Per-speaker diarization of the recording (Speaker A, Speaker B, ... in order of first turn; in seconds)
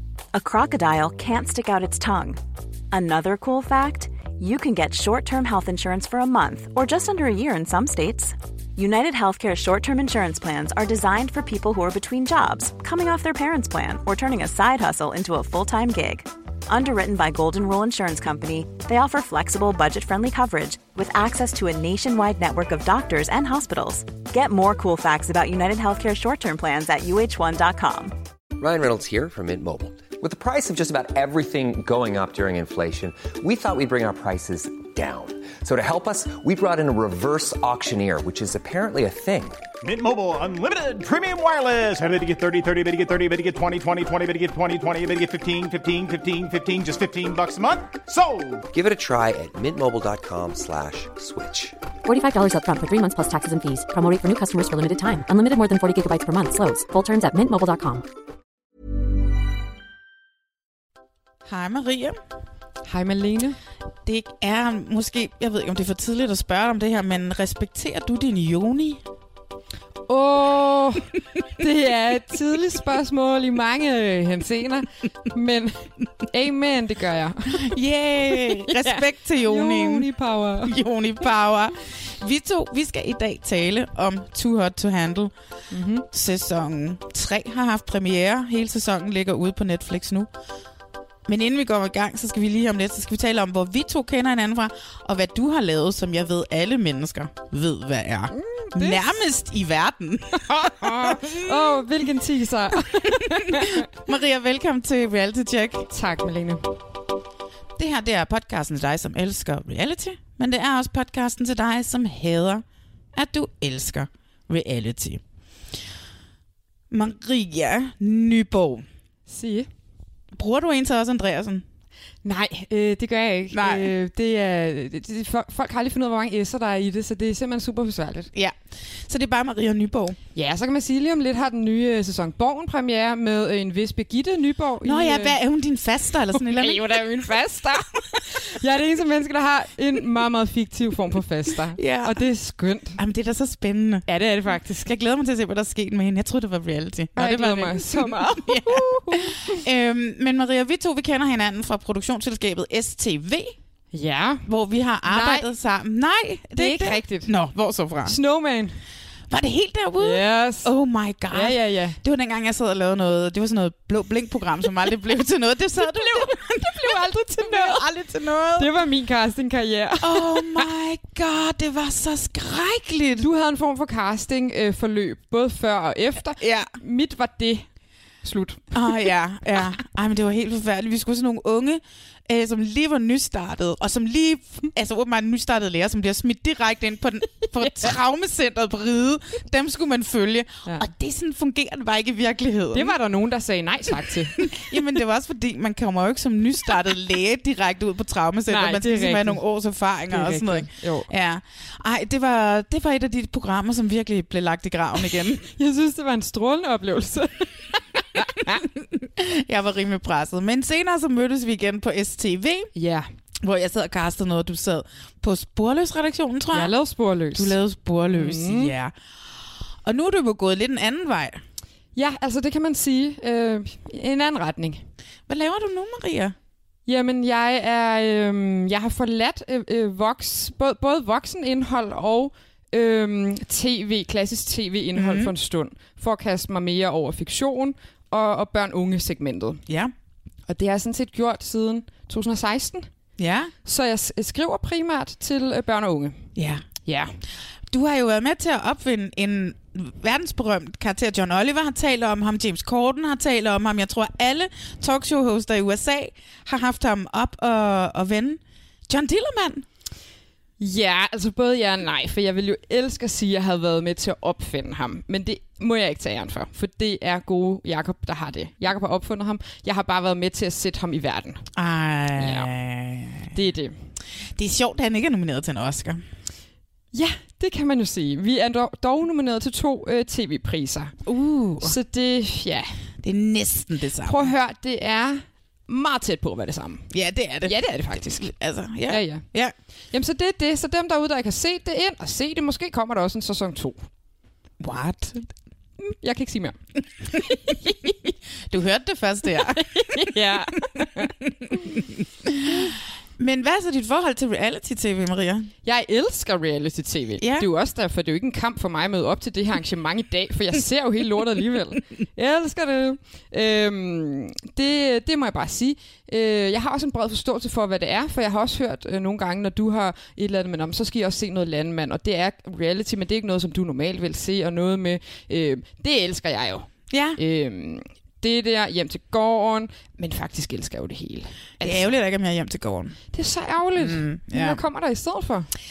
Speaker A: 0.3-2.4, 2.9-28.1
Speaker B: 28.6-39.6, 48.7-51.7
Speaker C: 39.8-48.7
Speaker D: 52.0-58.0
Speaker E: 61.5-62.2, 64.1-69.0, 77.5-80.1, 80.6-85.3, 86.1-90.3, 91.3-101.8, 103.0-105.9, 107.8-112.6, 113.2-115.2, 116.9-118.9, 120.3-121.7, 123.5-123.9, 128.3-130.2, 134.8-137.1, 141.8-142.2, 143.0-153.6, 154.5-158.2, 159.3-168.7, 170.0-173.3, 176.4-176.7, 178.7-192.9, 194.4-205.5, 208.6-212.7, 213.4-216.7, 217.3-218.9, 219.8-221.4, 225.3-226.3, 234.9-235.3, 239.7-239.9, 243.2-243.5, 246.4-246.7, 247.7-259.6, 271.6-273.3, 274.4-276.0, 281.1-281.8, 283.0-284.3, 286.9-289.5, 294.6-295.3, 298.5-300.1, 301.6-305.5, 307.2-307.5, 326.9-327.2, 331.6-333.0, 333.8-334.6
Speaker F: 62.9-63.6, 70.1-77.8, 78.3-80.8, 85.7-86.1, 98.4-99.0, 100.4-103.9, 105.9-106.7, 119.3-119.7, 122.2-128.3, 130.3-135.4, 136.3-143.0, 144.1-144.7, 147.2-149.6, 153.9-154.5, 155.1-155.5, 156.6-157.3, 158.1-158.8, 160.0-160.7, 161.3-162.0, 165.8-167.8, 168.6-170.7, 173.2-177.7, 178.2-179.0, 187.6-188.0, 192.7-194.6, 198.5-199.4, 200.1-201.1, 205.5-208.7, 212.8-213.1, 216.5-217.6, 218.1-218.7, 221.9-224.8, 226.9-239.6, 240.5-242.9, 243.7-246.3, 246.8-247.2, 260.6-271.4, 272.2-272.5, 273.3-273.8, 276.9-280.9, 281.6-282.8, 284.1-286.9, 287.4-288.3, 288.9-289.3, 289.9-293.9, 296.0-296.6, 299.6-301.1, 305.6-331.9, 333.1-335.5